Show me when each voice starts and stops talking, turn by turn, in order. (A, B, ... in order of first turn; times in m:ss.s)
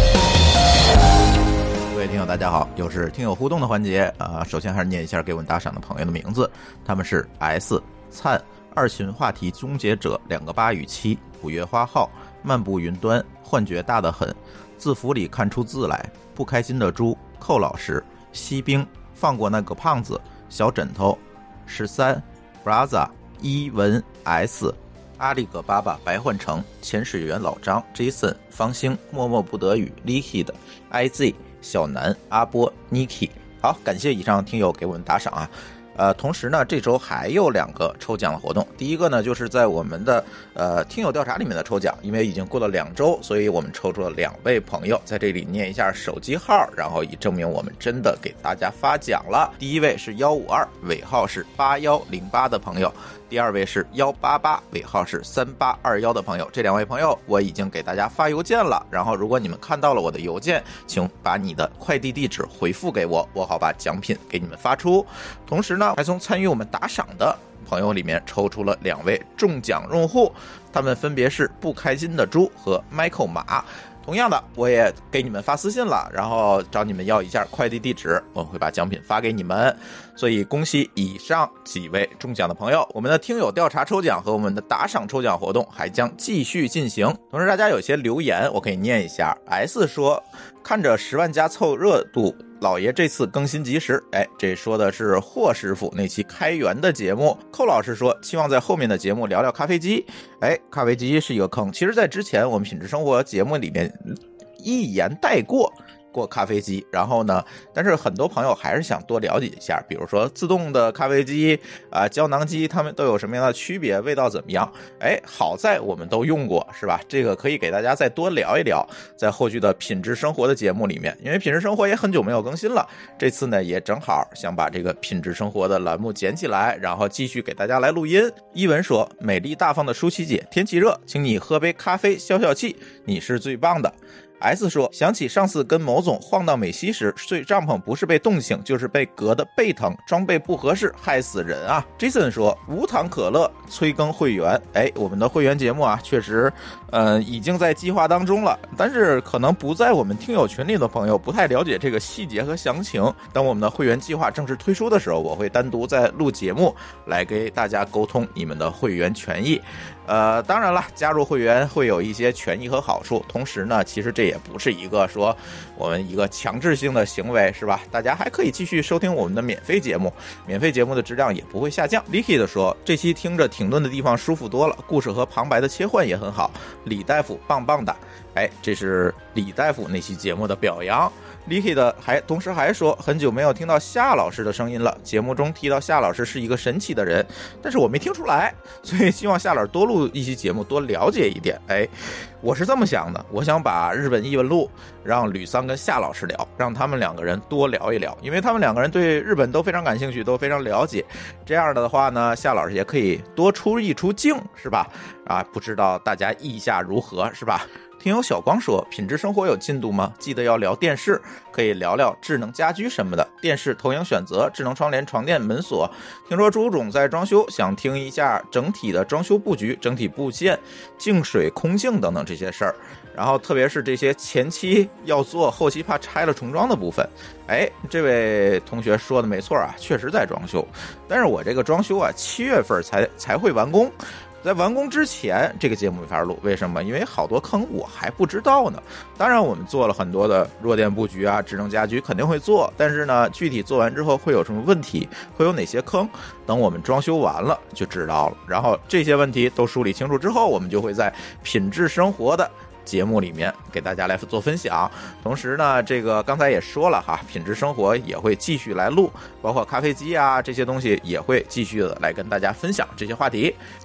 0:01.9-4:23.6 A